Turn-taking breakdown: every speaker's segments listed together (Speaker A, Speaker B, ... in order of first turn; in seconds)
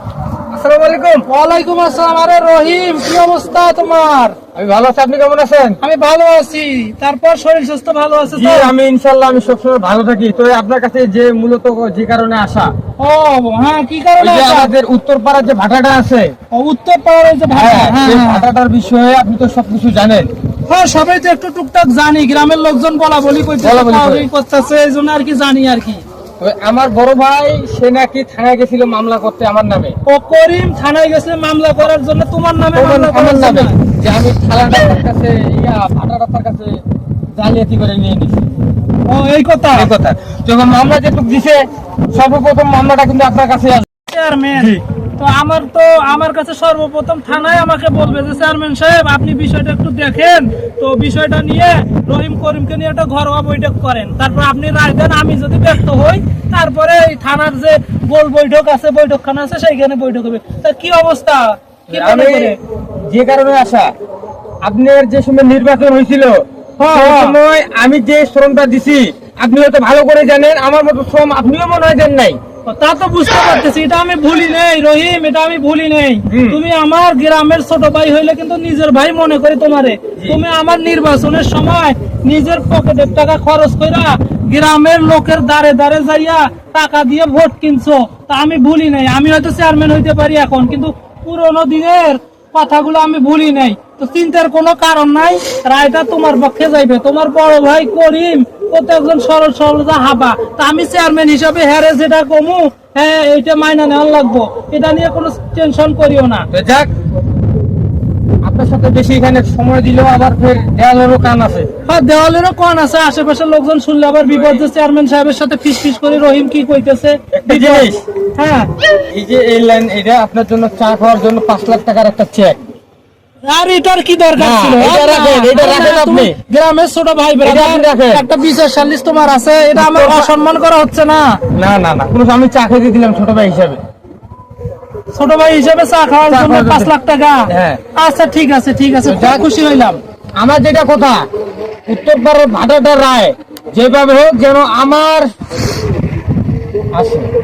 Speaker A: 0.5-1.2, 4.5-5.8, 8.3-12.7, 14.2-16.3, 17.5-20.3, 23.6-24.3, 26.4-29.9, 32.8-36.7, 37.4-38.6, 39.8-41.6, 42.1-43.9, 61.9-62.5, 63.1-63.9, 64.6-72.4, 76.3-76.6, 106.5-106.9, 108.4-111.7, 114.3-114.7, 117.3-118.0, 119.1-122.6, 124.4-126.3, 127.4-128.3, 129.8-130.3, 131.6-133.8, 136.3-136.9, 137.5-137.8, 139.1-139.5, 140.4-141.2, 141.9-145.3, 146.9-147.3
Speaker B: 1.2-4.4, 5.8-8.7, 13.0-14.7, 16.5-18.5, 20.7-26.0, 30.1-33.8, 39.1-39.9, 44.1-62.6, 66.8-67.4, 72.7-106.5, 111.9-118.7, 123.5-131.4, 135.1-140.0